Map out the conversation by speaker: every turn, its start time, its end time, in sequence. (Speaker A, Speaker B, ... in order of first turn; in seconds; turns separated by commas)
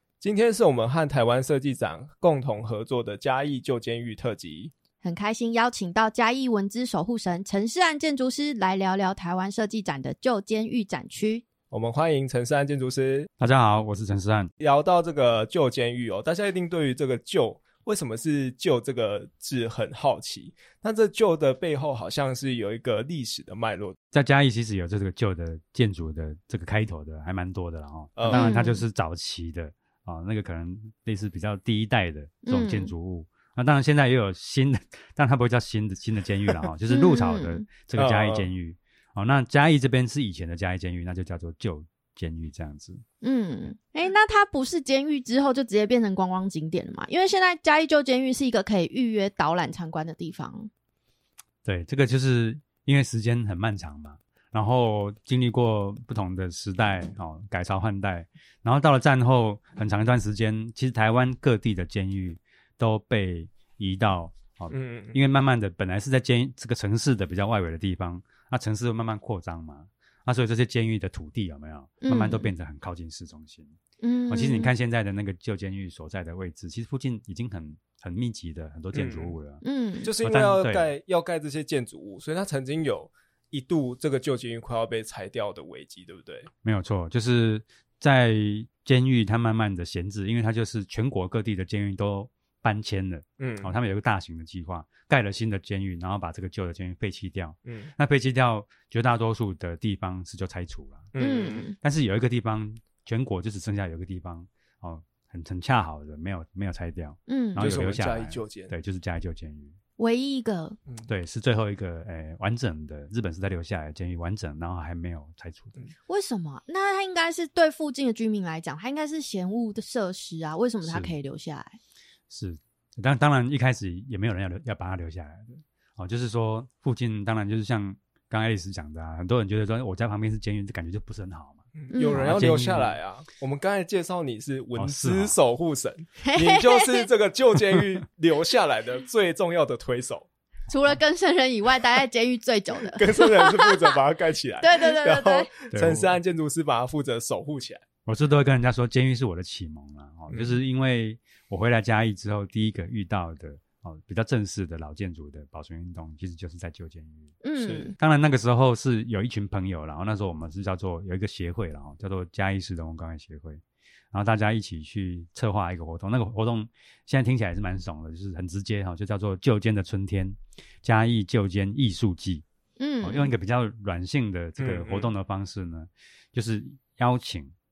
Speaker A: 0.2-4.7, Speaker B: 5.0-11.4, Speaker A: 11.7-13.3, Speaker C: 13.4-14.5, Speaker A: 14.6-24.0, Speaker C: 24.1-43.0, Speaker A: 28.2-28.5, Speaker B: 28.3-28.9, Speaker B: 32.5-32.9, Speaker B: 36.9-37.7, Speaker A: 38.0-38.5, Speaker B: 43.2-50.7, Speaker C: 51.6-73.8, Speaker A: 64.7-65.2, Speaker B: 72.0-72.5, Speaker B: 74.0-74.7, Speaker C: 74.3-79.6, Speaker A: 78.9-79.4, Speaker B: 79.6-80.1, Speaker A: 80.0-86.5, Speaker C: 80.2-80.9, Speaker C: 86.6-101.1, Speaker A: 93.4-93.7, Speaker A: 97.7-97.9, Speaker A: 101.1-101.7, Speaker B: 101.2-101.8, Speaker C: 101.8-109.8, Speaker B: 107.3-107.8, Speaker A: 107.6-108.7, Speaker B: 110.0-110.8, Speaker C: 111.1-115.8, Speaker B: 116.1-121.8, Speaker C: 120.8-121.2, Speaker C: 122.3-133.0, Speaker A: 131.8-140.3, Speaker B: 131.9-132.3, Speaker C: 134.8-135.4, Speaker B: 136.2-137.1, Speaker B: 140.7-143.7, Speaker A: 142.8-147.8, Speaker B: 144.6-145.5, Speaker C: 145.7-146.2, Speaker C: 148.1-157.4, Speaker A: 150.3-150.6, Speaker B: 157.4-158.0, Speaker A: 157.6-157.9, Speaker C: 158.0-172.4, Speaker B: 172.8-173.3, Speaker C: 173.0-177.5, Speaker A: 174.6-175.1